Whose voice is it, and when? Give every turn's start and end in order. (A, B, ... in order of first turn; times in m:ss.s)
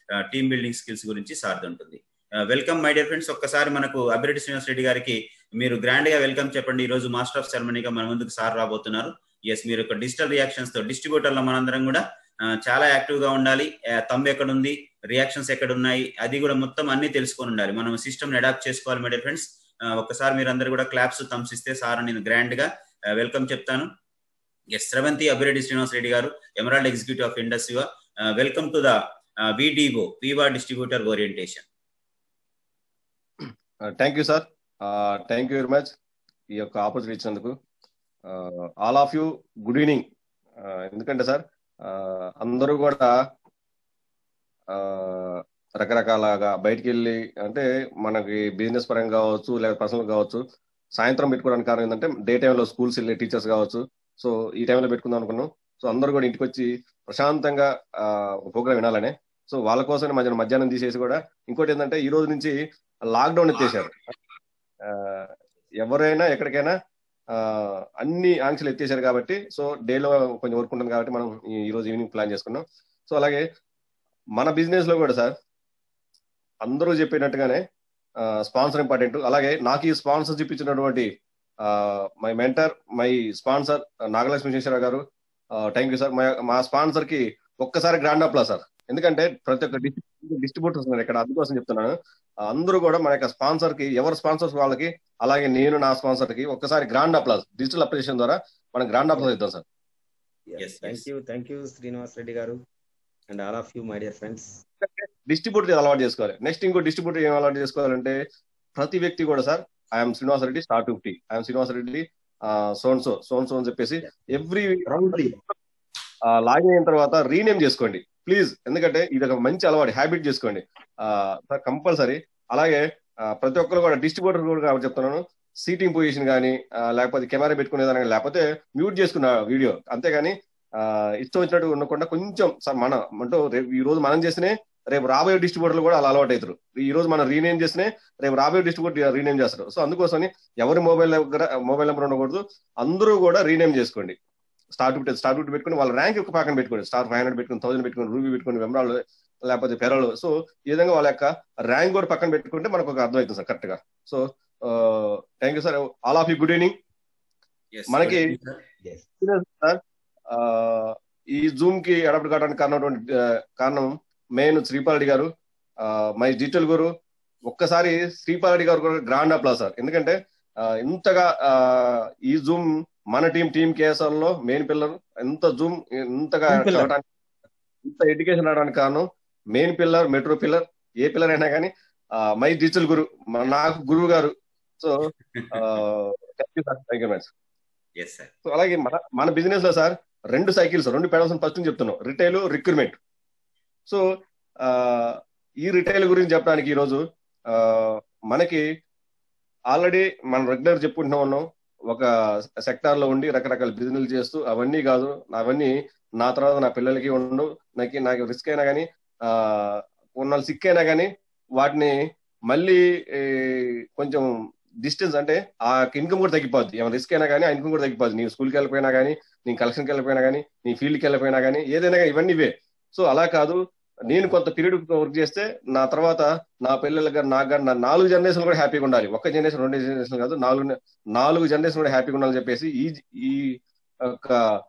0:00.3-0:12.0 A
0:12.6-0:23.9 A
0:24.7-0:31.6 A
0:33.4-0:36.0 B
0:36.5-0:37.6 B
0:38.2-0:43.1 B
0:44.7-0:50.4 B
0:51.0-1:02.6 B
1:03.1-1:04.1 B
1:04.8-1:06.7 B
1:07.3-1:13.4 B
1:14.4-1:15.4 B
1:16.6-1:17.6 B
1:18.2-1:21.1 B
1:21.6-1:25.0 B
1:25.6-1:39.6 B
1:40.5-1:42.6 C
1:40.6-1:41.0 A
1:43.3-1:44.6 C
1:44.8-1:48.2 B
1:48.8-1:55.5 B
1:54.8-1:55.4 C
1:56.3-2:24.2 B
2:24.7-2:36.8 B
2:37.7-2:38.5 A
2:37.9-2:38.3 B
2:39.2-2:45.3 B
2:45.8-2:46.9 B
2:47.5-2:57.0 B
2:56.5-2:56.9 C
2:57.8-3:07.3 B
3:08.0-3:08.3 A
3:08.4-3:13.0 B
3:14.6-3:18.6 B
3:19.7-3:22.1 B
3:22.6-3:34.3 B
3:34.8-3:54.6 B